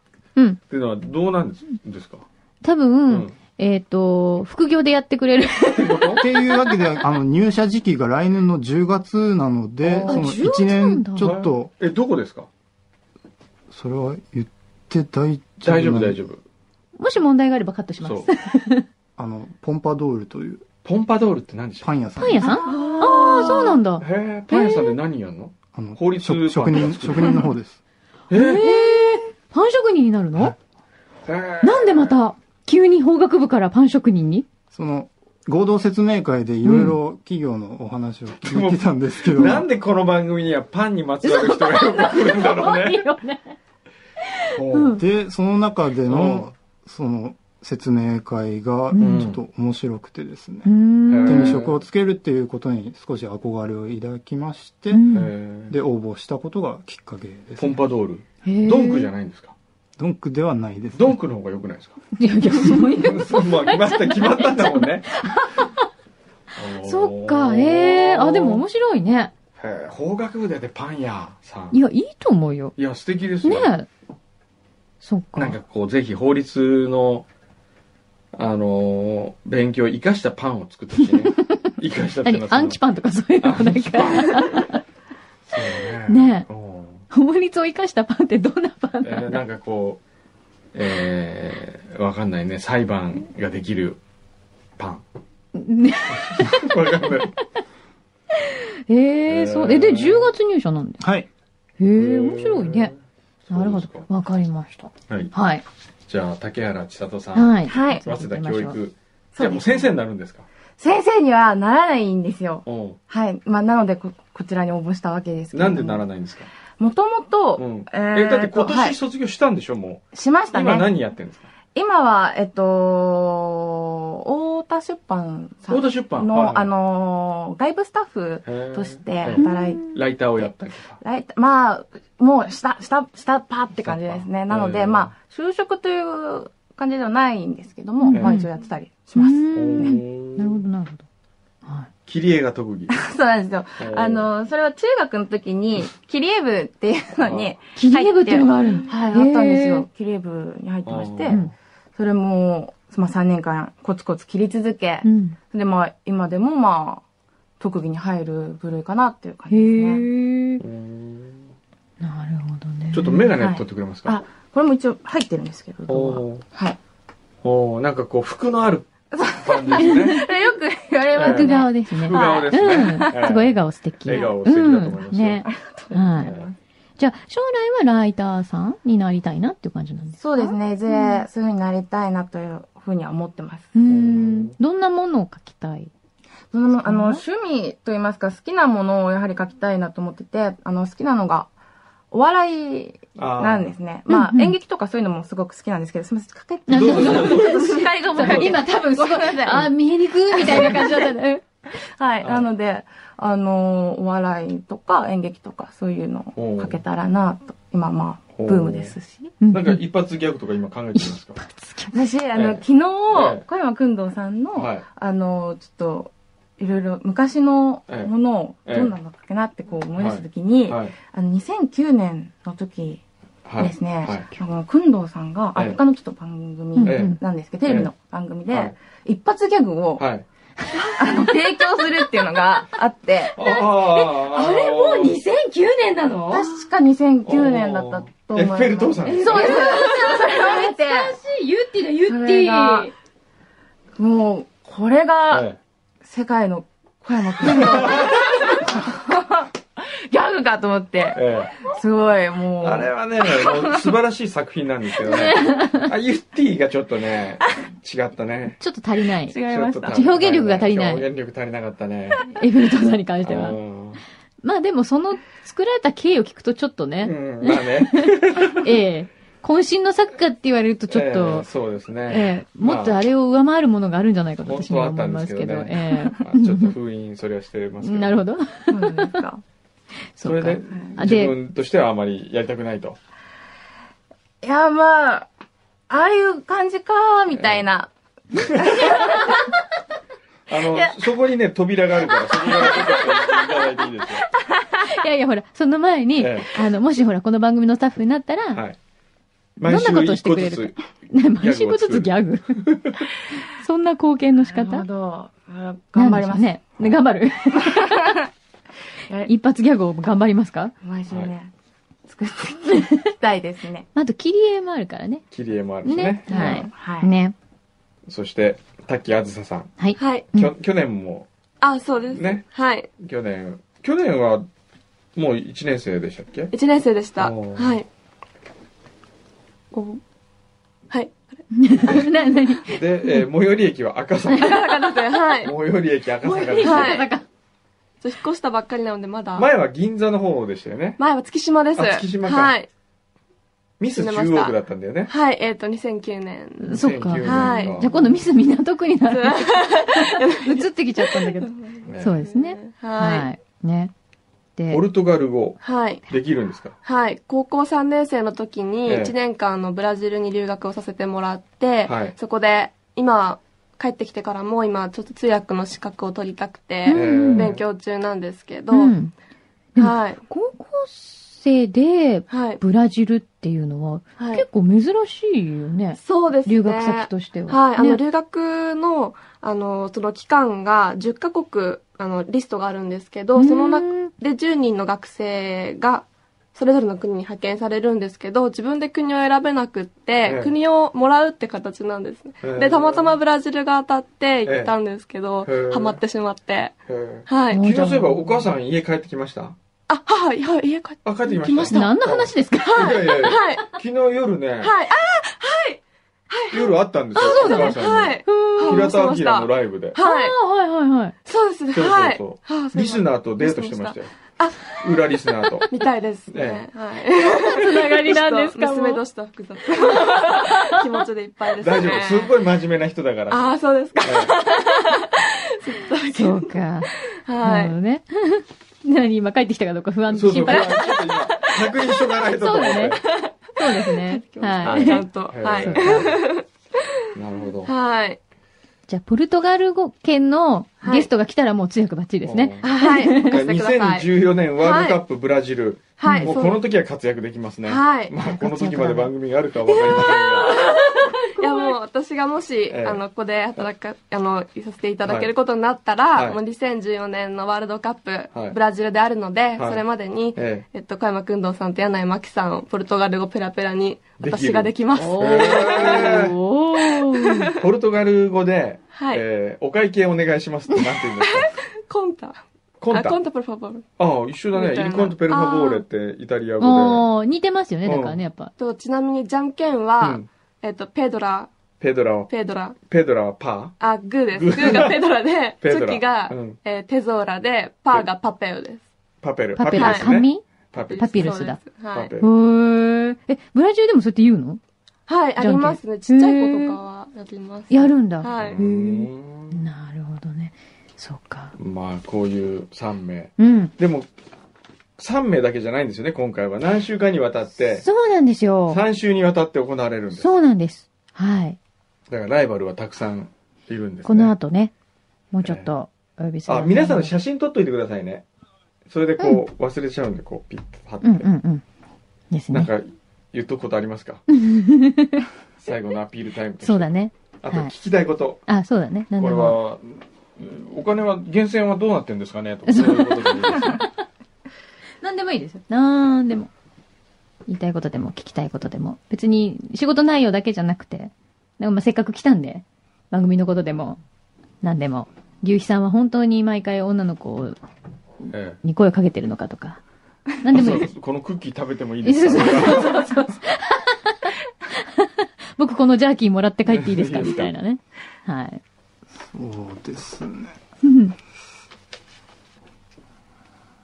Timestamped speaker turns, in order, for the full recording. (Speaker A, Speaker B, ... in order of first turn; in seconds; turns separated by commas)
Speaker A: 0.7-2.2, Speaker B: 2.6-6.9, Speaker A: 3.1-3.4, Speaker A: 5.7-6.2, Speaker C: 6.2-11.7, Speaker A: 9.8-10.2, Speaker B: 10.0-11.3, Speaker A: 11.2-12.5, Speaker C: 13.7-16.2, Speaker A: 15.6-16.4, Speaker B: 17.0-18.9, Speaker A: 18.0-18.3, Speaker C: 19.2-20.6, Speaker A: 20.8-21.9, Speaker C: 21.8-22.6, Speaker B: 22.2-25.0, Speaker D: 22.5-23.6, Speaker E: 22.7-23.8, Speaker A: 24.0-27.5, Speaker C: 25.7-27.8, Speaker A: 28.3-28.9, Speaker B: 28.3-30.6, Speaker A: 31.2-32.1, Speaker B: 31.6-34.5, Speaker C: 34.7-39.7, Speaker B: 36.6-37.0, Speaker A: 38.4-43.0, Speaker B: 41.2-43.6, Speaker B: 44.3-45.0, Speaker A: 44.5-45.0, Speaker C: 45.0-50.7, Speaker A: 46.1-46.5, Speaker B: 48.9-49.3, Speaker A: 49.0-49.4, Speaker B: 50.6-51.6, Speaker A: 51.1-51.8, Speaker C: 51.2-55.1, Speaker B: 54.9-55.3, Speaker A: 55.1-55.8, Speaker C: 55.7-57.8, Speaker A: 57.6-59.5, Speaker B: 58.4-59.1, Speaker C: 60.0-61.2, Speaker A: 60.9-62.0, Speaker B: 62.2-65.8, Speaker A: 62.6-65.1, Speaker A: 66.5-68.7, Speaker B: 66.7-69.3, Speaker A: 69.6-71.8, Speaker B: 71.7-72.8, Speaker A: 72.8-73.7, Speaker B: 73.4-73.9, Speaker B: 75.0-75.6, Speaker A: 75.4-77.3, Speaker A: 78.3-82.8, Speaker B: 81.0-81.7, Speaker B: 82.2-84.8, Speaker A: 83.4-84.7, Speaker A: 85.5-87.0, Speaker B: 86.1-86.5, Speaker B: 87.1-89.4, Speaker A: 89.0-90.0, Speaker A: 90.7-94.0, Speaker A: 94.8-95.0, Speaker B: 95.5-97.1, Speaker A: 96.1-97.3, Speaker B: 98.4-101.0, Speaker A: 99.3-100.3, Speaker C: 101.0-101.3, Speaker B: 101.8-102.9, Speaker A: 102.0-103.0, Speaker A: 103.5-104.1, Speaker B: 103.5-105.6, Speaker A: 106.1-110.5, Speaker B: 107.3-108.8, Speaker D: 107.7-108.0, Speaker D: 109.4-109.9, Speaker D: 110.8-116.0, Speaker A: 112.7-113.0, Speaker A: 115.5-116.5, Speaker D: 116.8-119.0, Speaker A: 117.6-121.5, Speaker D: 120.1-120.9, Speaker D: 121.7-140.0, Speaker A: 125.7-126.7, Speaker A: 128.4-131.0, Speaker B: 129.3-130.0, Speaker A: 133.8-135.1, Speaker B: 138.0-138.5, Speaker A: 138.1-138.4, Speaker B: 139.2-141.0, Speaker A: 139.5-140.6, Speaker A: 142.1-143.0, Speaker D: 142.9-151.4, Speaker A: 143.8-144.3, Speaker A: 147.2-147.5, Speaker B: 147.8-149.8, Speaker A: 150.8-151.5, Speaker D: 152.0-157.0, Speaker B: 155.0-155.4, Speaker D: 157.6-160.1, Speaker B: 159.5-160.6, Speaker A: 160.6-161.5, Speaker B: 162.0-163.3, Speaker A: 162.9-164.2, Speaker D: 163.3-166.8, Speaker A: 165.9-166.4, Speaker A: 167.4-170.3, Speaker D: 169.1-172.6, Speaker B: 169.8-170.2, Speaker A: 171.2-175.5, Speaker B: 171.2-176.3, Speaker D: 175.5-176.6, Speaker A: 176.2-176.5, Speaker B: 177.0-181.3, Speaker D: 180.2-183.7, Speaker B: 183.8-185.9, Speaker A: 183.9-184.6, Speaker D: 186.5-191.5, Speaker B: 186.8-187.2, Speaker D: 192.1-199.7, Speaker A: 193.2-193.7, Speaker B: 194.1-194.6, Speaker B: 196.7-201.4, Speaker A: 196.8-198.6, Speaker D: 200.3-201.1, Speaker D: 202.0-209.3, Speaker A: 202.2-202.5, Speaker A: 206.4-206.8, Speaker A: 208.4-209.0, Speaker B: 209.4-209.8, Speaker A: 209.5-211.4, Speaker B: 210.9-211.9, Speaker D: 211.9-223.0, Speaker A: 212.3-213.4, Speaker A: 214.6-214.8, Speaker A: 218.7-218.9, Speaker A: 220.0-220.9, Speaker A: 223.5-224.3, Speaker D: 223.6-230.1, Speaker B: 226.8-227.2, Speaker A: 226.8-227.2, Speaker A: 227.7-227.9, Speaker A: 230.0-230.2, Speaker B: 230.6-231.3, Speaker D: 231.0-233.4, Speaker A: 233.3-235.2, Speaker B: 233.4-236.5, Speaker D: 236.3-241.2, Speaker A: 237.2-239.6, Speaker B: 239.0-242.9, Speaker D: 242.1-242.9, Speaker D: 244.0-245.5, Speaker A: 245.3-245.6, Speaker D: 246.0-253.9, Speaker A: 247.4-248.2, Speaker A: 251.1-251.5, Speaker A: 252.6-258.6, Speaker B: 255.0-255.9, Speaker B: 258.6-261.1, Speaker D: 259.3-259.9, Speaker A: 259.4-262.3, Speaker B: 262.3-263.6, Speaker A: 263.2-264.0, Speaker B: 264.4-271.5, Speaker A: 267.0-268.7, Speaker A: 270.9-273.0, Speaker B: 272.1-276.8, Speaker A: 274.4-278.2, Speaker B: 277.8-279.2, Speaker D: 278.7-279.4, Speaker B: 280.1-281.4, Speaker A: 280.2-283.0, Speaker D: 284.4-285.3, Speaker D: 285.9-289.5, Speaker A: 287.3-287.6, Speaker A: 288.6-289.0, Speaker A: 290.5-294.3, Speaker D: 292.5-293.1, Speaker B: 294.9-298.6, Speaker A: 296.2-296.5, Speaker A: 298.5-298.8, Speaker A: 299.6-300.8, Speaker B: 299.6-302.6, Speaker A: 301.4-303.0, Speaker B: 303.5-304.9, Speaker D: 304.5-306.6, Speaker B: 305.9-308.2, Speaker D: 307.6-308.2, Speaker B: 309.2-310.7, Speaker D: 310.8-311.5, Speaker A: 311.1-311.3, Speaker D: 312.1-313.9, Speaker B: 313.9-315.2, Speaker A: 315.3-316.6, Speaker B: 315.8-317.3, Speaker D: 316.3-317.1, Speaker A: 318.1-319.7, Speaker B: 319.8-320.5, Speaker E: 320.0-320.3, Speaker A: 320.3-321.3, Speaker E: 321.6-322.9, Speaker A: 322.1-322.4, Speaker A: 323.0-324.5, Speaker A: 325.1-326.5, Speaker E: 326.5-327.9, Speaker A: 327.2-327.8, Speaker E: 329.7-330.0, Speaker E: 330.9-331.4, Speaker B: 331.5-333.2, Speaker A: 331.8-334.7, Speaker E: 334.3-335.5, Speaker A: 335.4-337.0, Speaker B: 336.2-337.2, Speaker E: 336.6-337.1, Speaker E: 338.0-339.5, Speaker A: 339.4-341.0, Speaker E: 341.0-342.7, Speaker A: 341.8-342.6, Speaker A: 343.8-345.1, Speaker E: 343.9-348.2, Speaker B: 346.6-353.9, Speaker A: 346.7-347.9, Speaker E: 349.1-353.3, Speaker A: 351.9-352.2, Speaker B: 354.6-354.8, Speaker A: 354.7-356.8, Speaker E: 355.6-356.0, Speaker E: 356.8-368.9, Speaker A: 358.9-359.1, Speaker A: 361.9-362.1, Speaker B: 366.9-367.5, Speaker A: 366.9-367.6, Speaker B: 368.7-369.1, Speaker B: 369.8-378.0, Speaker E: 369.8-370.2, Speaker E: 372.3-372.6, Speaker E: 374.2-374.4, Speaker E: 376.0-396.8, Speaker B: 383.4-384.1, Speaker A: 390.2-390.5, Speaker A: 392.4-393.1, Speaker A: 394.5-394.7, Speaker A: 395.4-396.0, Speaker A: 396.9-399.6, Speaker E: 397.3-397.7, Speaker B: 397.5-398.5, Speaker E: 399.9-401.9, Speaker A: 401.1-404.7, Speaker B: 401.6-403.4, Speaker E: 402.7-403.6, Speaker E: 404.6-410.4, Speaker A: 406.5-410.0, Speaker B: 407.2-408.9, Speaker B: 410.0-411.1, Speaker E: 411.2-422.4, Speaker A: 411.7-414.1, Speaker A: 414.7-415.7, Speaker A: 416.3-416.7, Speaker B: 417.3-419.0, Speaker B: 419.8-420.9, Speaker A: 421.6-424.3, Speaker E: 423.3-427.8, Speaker B: 426.1-430.8, Speaker A: 430.1-433.0, Speaker E: 430.4-431.5, Speaker B: 432.4-433.0, Speaker E: 433.1-436.5, Speaker B: 433.6-436.1, Speaker A: 434.6-436.2, Speaker A: 437.1-437.7, Speaker E: 437.6-438.2, Speaker B: 438.9-443.4, Speaker E: 440.8-441.1, Speaker A: 442.2-450.6, Speaker E: 442.6-445.0, Speaker E: 446.0-446.7, Speaker B: 446.0-446.3, Speaker E: 447.7-448.1, Speaker B: 448.2-449.1, Speaker E: 449.8-466.3, Speaker B: 450.8-451.8, Speaker A: 452.7-453.0, Speaker A: 455.1-455.3, Speaker A: 456.1-456.4, Speaker A: 459.6-459.8, Speaker A: 460.4-460.7, Speaker A: 464.2-466.4, Speaker B: 464.9-467.5, Speaker E: 466.9-467.3, Speaker A: 467.6-471.5, Speaker E: 468.9-469.2, Speaker E: 471.2-473.9, Speaker A: 472.8-473.2, Speaker A: 474.0-477.1, Speaker E: 474.5-475.8, Speaker B: 476.6-478.5, Speaker A: 477.9-478.2, Speaker E: 478.6-481.5, Speaker A: 480.0-480.3, Speaker A: 481.8-482.3, Speaker E: 482.3-482.8, Speaker A: 482.8-483.8, Speaker E: 483.8-488.8, Speaker A: 484.3-485.0, Speaker A: 485.6-486.6, Speaker A: 489.2-491.3, Speaker B: 489.6-490.4, Speaker E: 489.7-490.1, Speaker E: 490.8-492.1, Speaker B: 491.0-491.6, Speaker A: 491.9-492.3, Speaker B: 492.2-494.6, Speaker E: 495.1-498.6, Speaker B: 495.4-496.8, Speaker B: 497.7-501.6, Speaker A: 498.3-499.6, Speaker A: 501.6-504.1, Speaker B: 503.4-503.7, Speaker A: 505.0-507.9, Speaker B: 507.8-508.8, Speaker A: 508.7-510.3, Speaker B: 510.1-511.6, Speaker A: 512.1-514.3, Speaker B: 514.1-514.7, Speaker B: 515.3-517.1, Speaker A: 515.4-515.7, Speaker A: 516.5-518.2, Speaker A: 518.9-521.3, Speaker B: 521.0-521.6, Speaker B: 522.3-522.7, Speaker A: 522.5-524.2, Speaker B: 524.3-525.3, Speaker A: 525.6-526.9, Speaker B: 526.6-527.7, Speaker A: 527.4-528.4, Speaker B: 528.5-529.6, Speaker A: 529.2-533.8, Speaker B: 532.7-533.9, Speaker B: 535.0-536.5, Speaker B: 537.5-544.0, Speaker B: 544.6-547.6, Speaker A: 548.3-548.6, Speaker B: 548.6-549.8, Speaker B: 550.4-550.9, Speaker A: 550.5-553.1, Speaker B: 552.0-558.6, Speaker A: 556.7-557.5, Speaker C: 559.2-560.6, Speaker B: 560.8-561.1